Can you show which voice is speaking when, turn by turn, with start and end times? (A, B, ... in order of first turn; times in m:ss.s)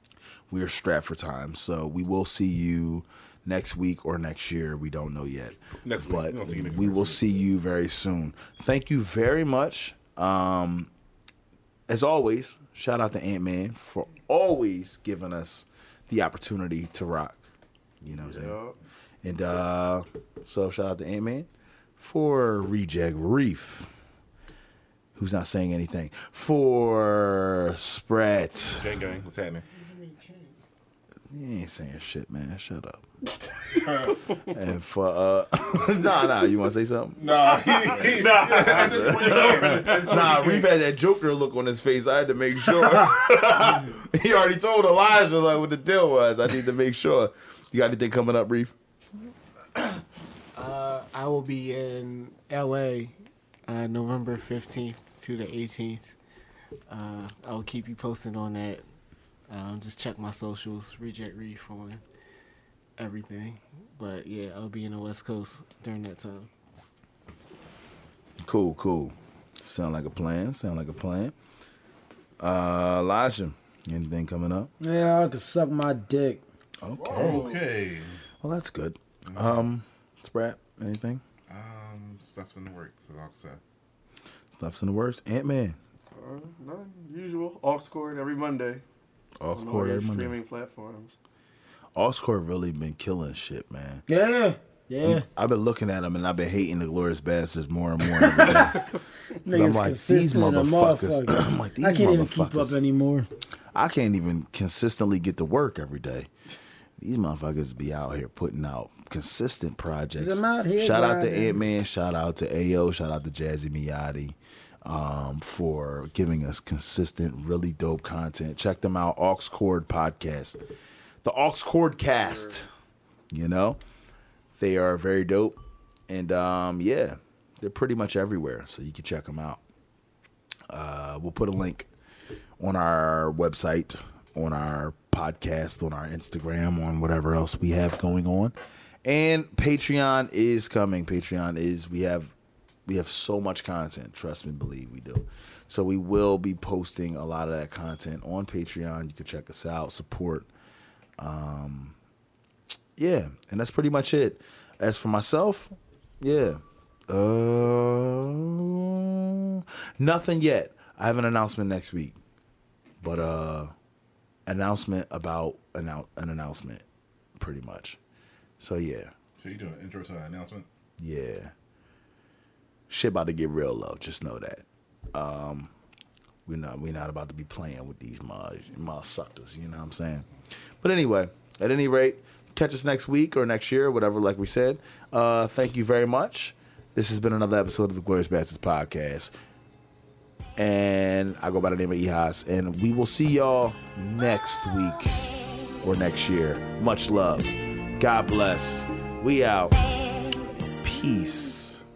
0:00.5-0:10.9 A
0:05.8-0:07.3 B
0:11.9-0:17.4 A
0:18.0-0:18.6 A
0:18.3-0:18.7 C
0:19.2-0:23.9 A
0:25.2-0:29.0 A
0:28.6-0:29.7 B
0:29.9-0:30.5 D
0:31.3-0:33.0 A
0:33.7-0:34.2 B
0:34.5-0:37.3 A
0:37.2-0:40.7 B
0:37.9-0:40.6 C
0:38.0-0:48.7 A
0:50.6-0:53.2 D
0:53.7-0:56.1 D
0:56.9-0:58.8 D
0:59.5-1:02.0 D
1:03.0-1:06.5 D
1:08.4-1:11.3 A
1:12.4-1:14.7 A
1:14.8-1:16.4 E
1:16.8-1:17.5 A
1:17.0-1:18.2 B
1:17.1-1:17.5 E
1:18.4-1:21.2 A
1:19.3-1:19.6 B
1:21.5-1:23.6 B
1:24.6-1:25.8 A
1:26.2-1:28.8 C
1:29.4-1:30.4 A
1:29.5-1:31.1 C
1:32.0-1:34.0 A
1:34.1-1:35.2 E
1:35.0-1:38.8 A
1:38.1-1:38.9 E
1:39.4-1:43.3 E
1:39.5-1:42.8 A
1:43.7-1:46.3 A
1:47.0-2:00.6 A
1:50.2-1:51.6 E
2:01.2-2:02.7 A
2:03.3-2:03.8 A
2:04.6-2:09.6 A
2:10.7-2:11.9 A
2:12.6-2:22.3 A
2:22.9-2:30.5 A
2:31.2-2:32.0 A
2:33.0-2:42.2 A
2:43.0-2:43.7 A
2:44.5-2:46.8 A
2:47.4-2:48.0 A
2:48.6-2:49.1 A
2:49.4-2:50.7 B
2:51.0-2:51.5 A
2:52.9-2:55.7 A
2:56.5-3:00.3 A
3:00.8-3:09.3 A
3:10.6-3:15.2 A
3:15.8-3:19.8 A
3:20.8-3:21.8 A